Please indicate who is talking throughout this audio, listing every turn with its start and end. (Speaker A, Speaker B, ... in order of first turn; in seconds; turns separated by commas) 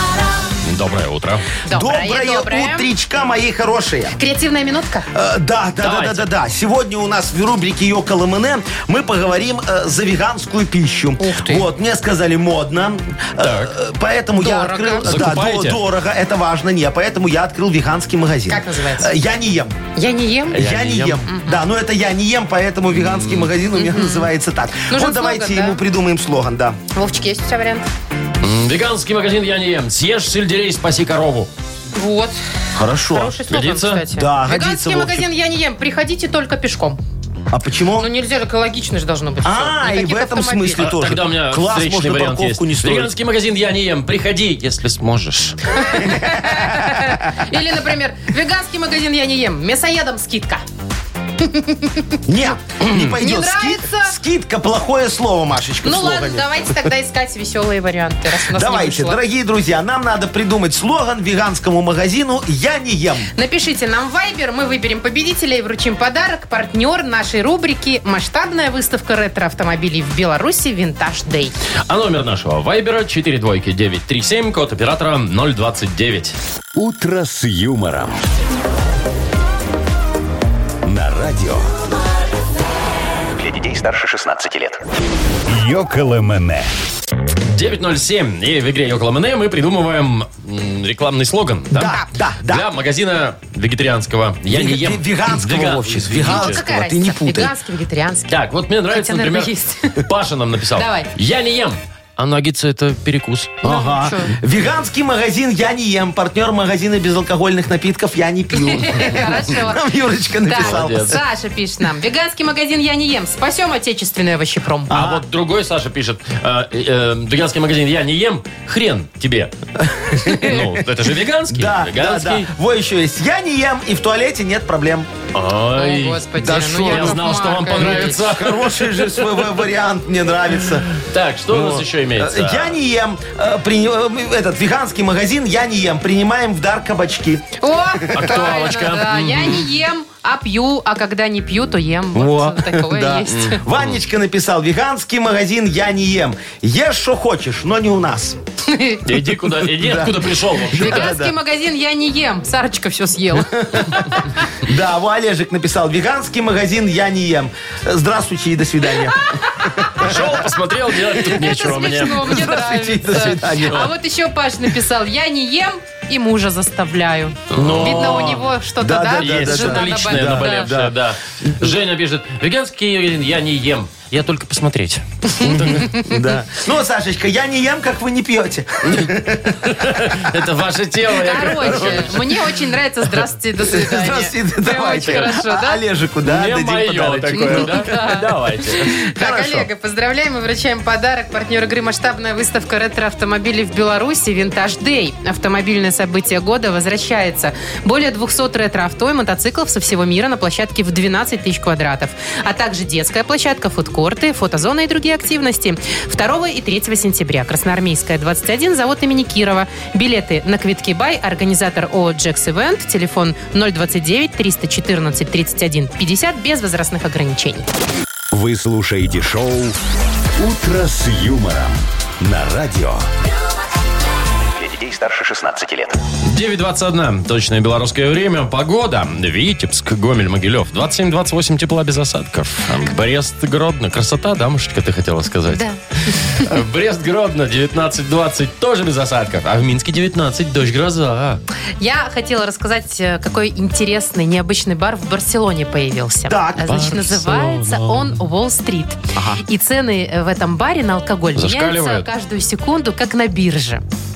Speaker A: 0.6-1.5, Speaker B: 1.7-2.9, Speaker C: 1.7-4.2, Speaker B: 4.2-5.1, Speaker C: 5.1-19.8, Speaker A: 5.8-6.3, Speaker B: 11.2-11.7, Speaker A: 13.4-13.7, Speaker B: 14.3-15.3, Speaker A: 15.1-15.8, Speaker B: 18.5-19.1, Speaker B: 19.9-20.6, Speaker C: 20.5-26.8, Speaker A: 20.5-21.2, Speaker B: 21.3-21.6, Speaker A: 22.9-23.5, Speaker B: 23.8-24.3, Speaker B: 24.9-25.8, Speaker B: 26.9-27.9, Speaker A: 28.4-31.5, Speaker B: 31.9-32.4, Speaker C: 32.8-33.3, Speaker B: 33.1-37.0, Speaker A: 33.5-34.0, Speaker C: 34.1-35.2, Speaker C: 37.5-38.1, Speaker B: 38.0-40.9, Speaker C: 39.4-43.1, Speaker A: 40.8-45.6, Speaker B: 45.7-50.6, Speaker C: 46.0-47.4, Speaker B: 51.4-52.2, Speaker C: 52.3-56.7, Speaker B: 53.1-54.1, Speaker B: 55.8-59.2, Speaker C: 58.5-63.3, Speaker B: 63.3-71.6, Speaker A: 71.9-76.4, Speaker D: 76.8-78.2, Speaker D: 80.8-81.7, Speaker E: 83.4-84.8, Speaker D: 85.5-86.7, Speaker A: 87.5-96.6, Speaker C: 91.7-92.7, Speaker B: 91.8-92.1, Speaker C: 94.5-97.5, Speaker B: 96.2-98.4, Speaker A: 98.3-99.5, Speaker B: 98.9-100.0, Speaker A: 100.0-103.6, Speaker B: 100.8-101.1, Speaker B: 103.6-104.3, Speaker C: 103.6-111.2, Speaker B: 108.5-109.9, Speaker B: 110.4-115.0, Speaker A: 110.5-111.2, Speaker C: 114.9-115.2, Speaker A: 114.9-119.5, Speaker C: 119.8-120.7, Speaker A: 120.4-122.5, Speaker C: 121.5-125.1, Speaker A: 125.3-129.5, Speaker B: 125.8-128.2, Speaker C: 126.5-138.4, Speaker A: 131.0-132.8, Speaker B: 137.6-143.7, Speaker A: 138.1-139.7, Speaker C: 142.2-148.4, Speaker A: 143.3-144.0, Speaker B: 148.7-149.1, Speaker A: 149.1-151.2, Speaker C: 149.6-151.3, Speaker B: 150.8-154.2, Speaker C: 153.4-160.4, Speaker B: 159.6-160.2, Speaker A: 160.0-162.4, Speaker C: 161.2-163.9, Speaker B: 161.2-170.8, Speaker A: 167.5-168.4, Speaker C: 167.6-171.7, Speaker A: 169.2-175.9, Speaker B: 175.3-176.2, Speaker C: 175.4-180.3, Speaker A: 178.8-182.4, Speaker B: 181.1-185.8, Speaker C: 181.6-182.3, Speaker C: 183.6-187.9, Speaker A: 185.0-185.3, Speaker A: 186.2-189.0, Speaker B: 187.3-217.7, Speaker C: 189.0-189.7, Speaker D: 218.3-219.8, Speaker D: 220.4-223.1, Speaker E: 224.5-226.0, Speaker A: 226.2-241.4, Speaker B: 235.5-236.5, Speaker B: 241.8-253.8, Speaker C: 246.3-247.1, Speaker A: 246.7-248.2, Speaker C: 249.2-249.4, Speaker A: 251.4-252.1